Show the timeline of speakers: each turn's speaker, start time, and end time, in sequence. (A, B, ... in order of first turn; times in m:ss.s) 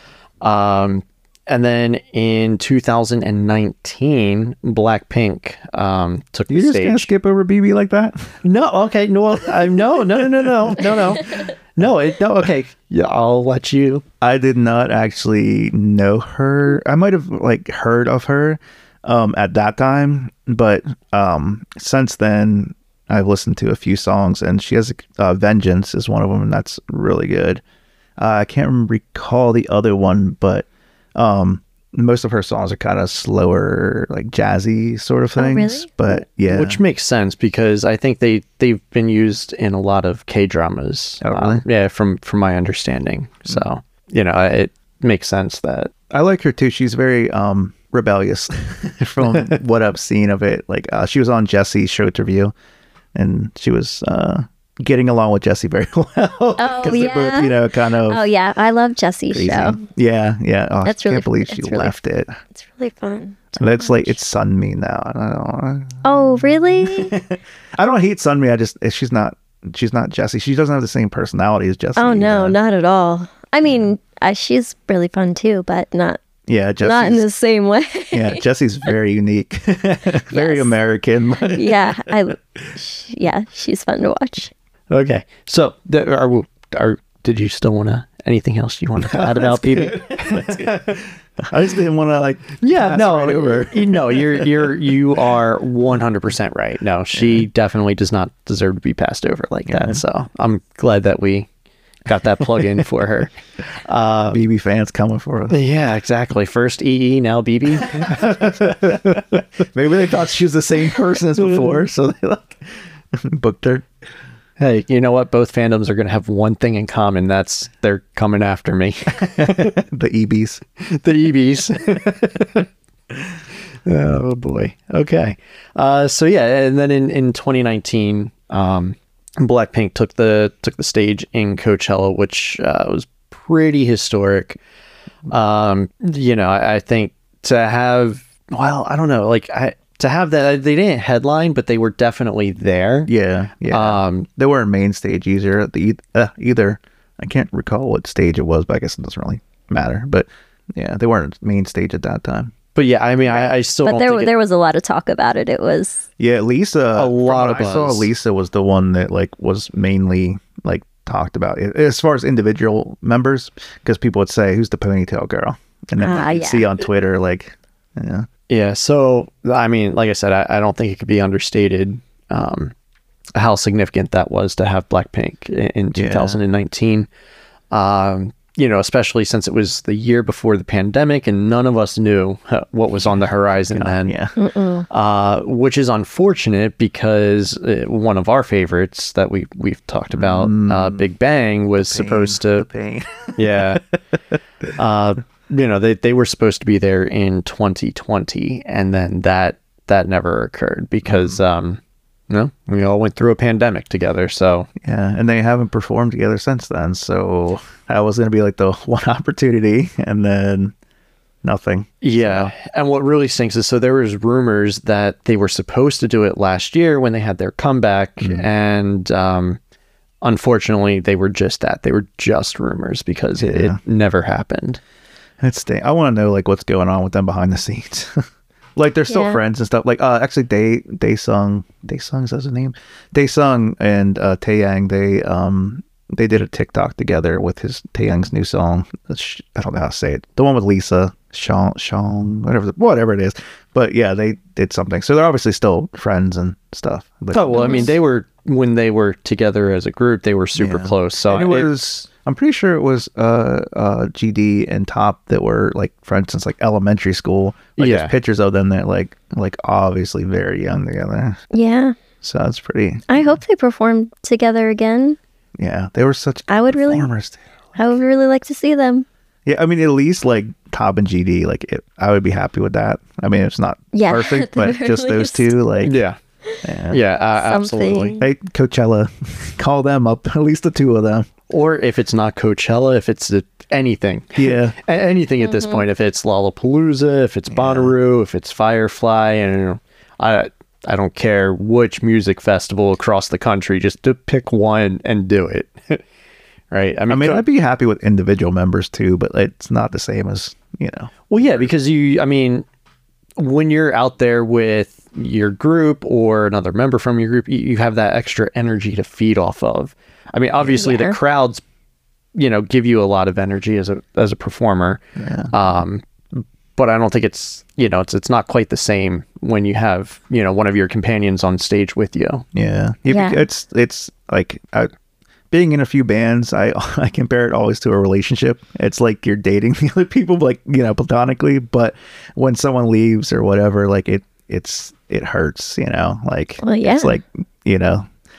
0:00.4-0:07.1 A
0:06.5-0:08.3 B
0:08.4-0:14.0 A
0:14.2-0:27.6 B
0:28.2-0:36.8 B
0:35.4-0:35.9 C
0:36.5-0:45.9 A
0:41.2-0:41.6 B
0:46.1-0:52.5 B
0:53.2-0:58.2 B
0:56.6-0:59.8 C
0:59.3-1:02.4 B
1:00.8-1:02.0 C
1:02.6-1:04.2 C
1:03.6-1:06.1 B
1:06.0-1:07.2 C
1:06.8-1:12.6 B
1:12.0-1:16.2 C
1:16.5-1:17.2 B
1:16.8-1:18.4 C
1:18.1-1:22.1 B
1:20.3-1:20.7 C
1:21.5-1:24.5 C
1:24.9-1:30.9 A
1:29.1-1:34.6 B
1:32.6-1:41.5 A
1:37.2-1:37.5 B
1:39.7-1:40.0 B
1:42.1-1:44.4 A
1:44.3-1:45.6 B
1:45.5-1:49.1 A
1:48.0-1:52.6 B
1:53.1-1:53.9 B
1:54.6-1:59.8 A
1:59.3-2:00.6 B
2:00.8-2:02.7 A
2:03.8-2:14.6 A
2:15.3-2:23.1 A
2:23.1-2:32.5 B
2:23.7-2:24.3 A
2:32.8-2:34.3 A
2:33.8-2:36.0 C
2:36.2-2:48.3 B
2:37.0-2:38.1 A
2:46.0-2:46.7 C
2:48.5-2:52.7 A
2:53.4-2:57.1 A
2:56.0-2:56.4 B
2:57.7-3:04.2 A
3:03.7-3:04.4 B
3:04.4-3:04.9 C
3:04.9-3:12.7 A
3:10.1-3:11.1 B
3:11.8-3:13.6 B
3:13.4-3:13.8 A
3:14.8-3:24.7 A
3:21.1-3:21.4 B
3:24.8-3:30.7 B
3:31.4-3:32.5 B
3:32.0-3:39.6 A
3:38.2-3:38.5 B
3:40.2-3:44.8 A
3:43.4-3:43.8 B
3:45.4-3:48.2 B
3:48.8-4:07.9 B
3:49.1-3:49.4 C
4:07.3-4:11.7 A
4:07.5-4:07.9 C
4:10.6-4:21.4 B
4:17.8-4:18.1 A
4:21.5-4:22.0 C
4:22.2-4:23.4 B
4:23.1-4:25.2 C
4:25.6-4:27.4 B
4:26.5-4:27.1 C
4:27.8-4:29.1 C
4:29.5-4:36.0 B
4:33.9-4:35.6 C
4:35.8-4:36.2 A
4:36.6-4:37.0 B
4:36.9-4:38.2 A
4:37.4-4:38.2 C
4:38.2-4:41.3 B
4:41.5-4:56.0 A
4:44.4-4:44.8 B
4:45.4-4:45.8 C
4:47.5-4:47.9 B
4:56.7-4:57.4 A
4:57.1-5:01.7 B
5:01.3-5:02.7 A
5:03.4-5:11.6 A
5:10.8-5:11.2 C
5:12.3-5:16.0 A
5:15.2-5:15.5 B
5:16.8-5:22.4 A
5:22.5-5:24.9 B
5:23.1-5:23.4 C
5:25.5-5:38.1 B
5:36.6-5:37.2 C